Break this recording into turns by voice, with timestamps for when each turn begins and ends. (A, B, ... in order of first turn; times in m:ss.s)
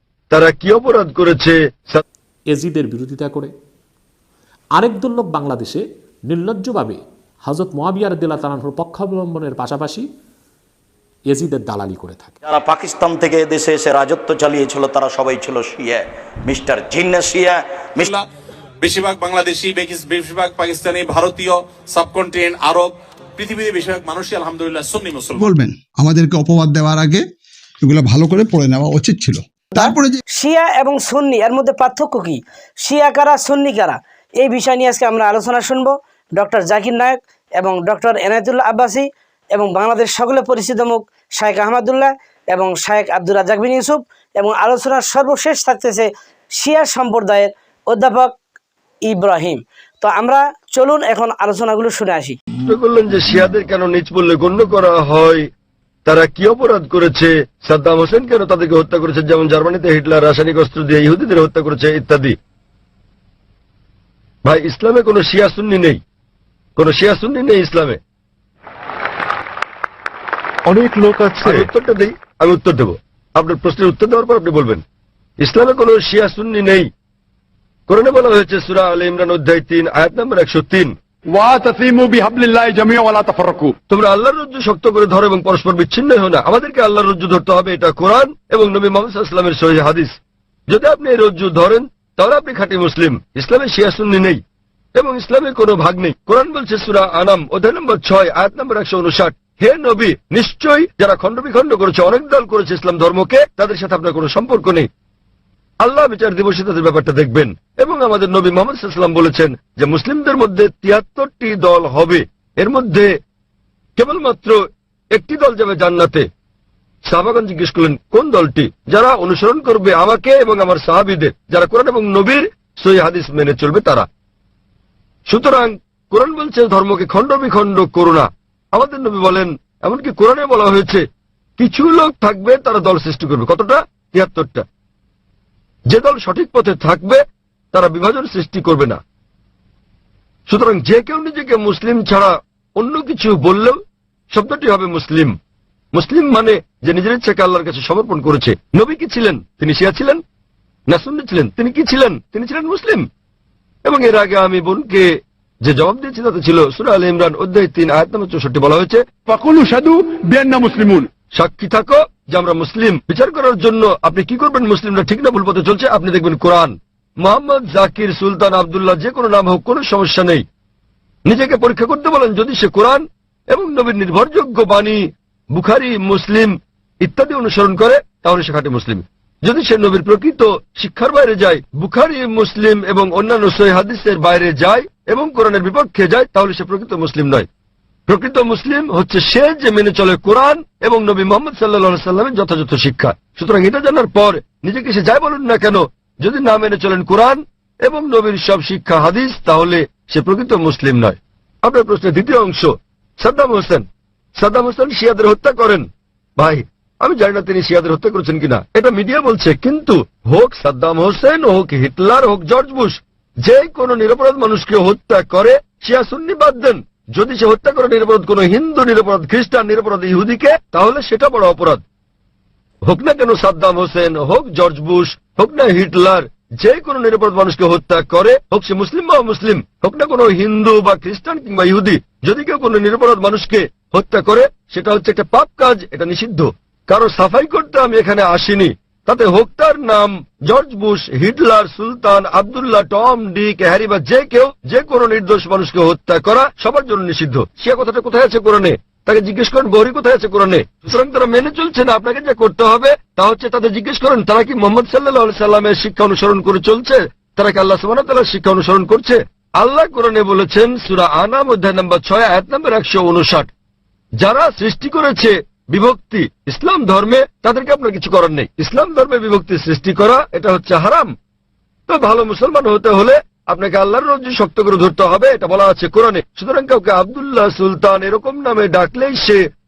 0:00.3-0:02.0 A
0:02.5-0:03.5 B
0:04.8-0:10.1 B
0:11.3-0:12.4 B
0:12.4-0:18.1 C
0:18.0-0:18.2 D
0:18.8-0:25.5 D
0:25.4-0:27.2 E
0:27.8-0:30.2 E
0:29.8-0:48.4 F
0:49.1-0:52.4 F
0:52.7-0:55.5 A
0:56.0-1:02.4 A
1:04.4-1:06.0 A
1:06.8-1:08.0 A
1:10.7-1:11.7 G
1:11.4-1:14.8 A
1:15.4-1:16.9 A
1:17.9-1:21.0 A
1:21.3-1:23.7 G
1:23.9-1:30.2 A
1:30.7-1:34.4 A
1:35.0-1:44.9 A
1:45.8-1:53.1 A
1:54.0-1:54.6 A
1:55.1-1:56.3 A
1:57.1-2:04.1 A
2:05.3-2:11.0 A
2:11.6-2:14.6 A
2:15.9-2:17.2 A
2:17.7-2:19.0 A
2:20.5-2:23.8 A
2:24.3-2:25.4 A
2:25.9-2:30.2 A
2:30.9-2:33.1 A
2:33.9-2:39.1 A
2:39.3-2:41.1 G
2:41.4-2:50.4 A
2:51.3-3:07.5 A
3:08.1-3:23.9 A
3:24.4-3:25.9 A
3:26.4-3:41.8 A
3:42.9-4:23.5 A
4:24.2-4:31.1 A
4:31.9-4:39.4 A